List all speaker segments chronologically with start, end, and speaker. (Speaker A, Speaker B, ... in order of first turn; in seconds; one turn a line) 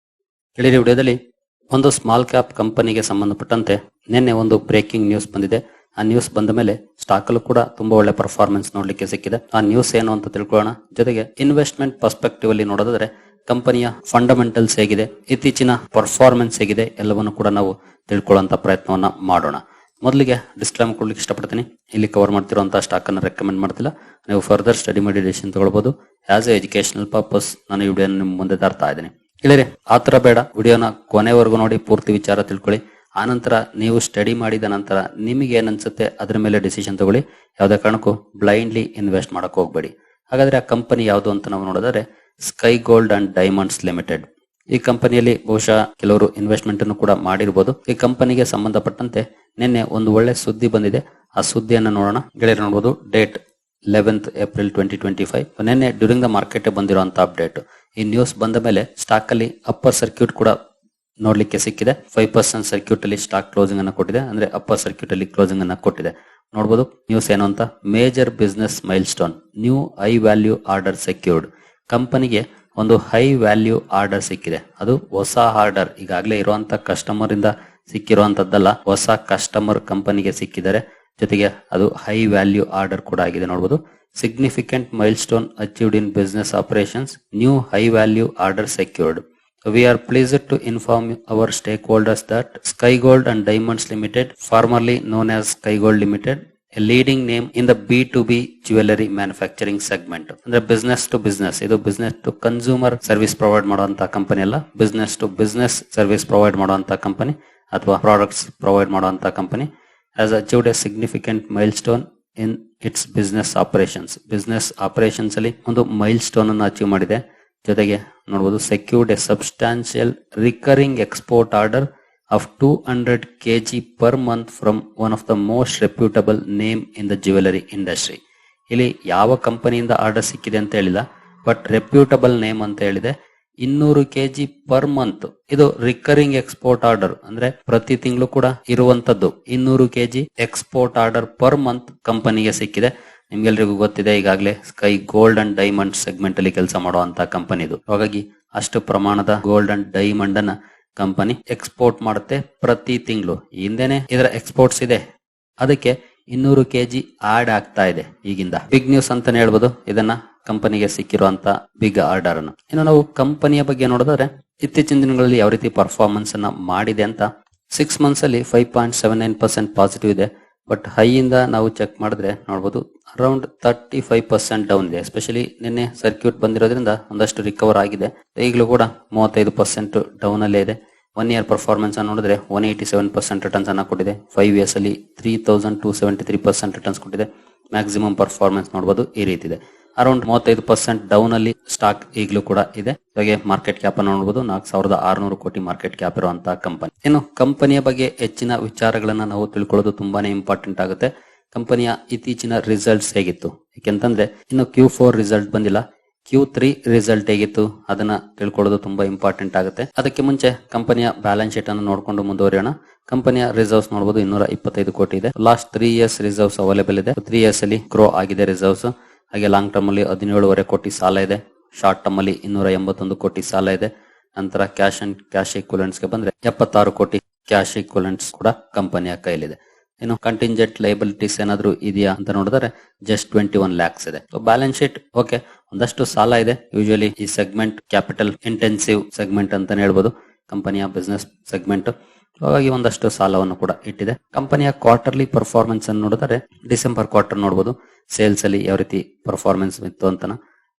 Speaker A: 0.6-1.2
Speaker A: 1.7-53.4
Speaker A: 53.9-60.5
Speaker A: 61.2-128.2
Speaker A: 128.7-155.0
Speaker A: 155.6-250.4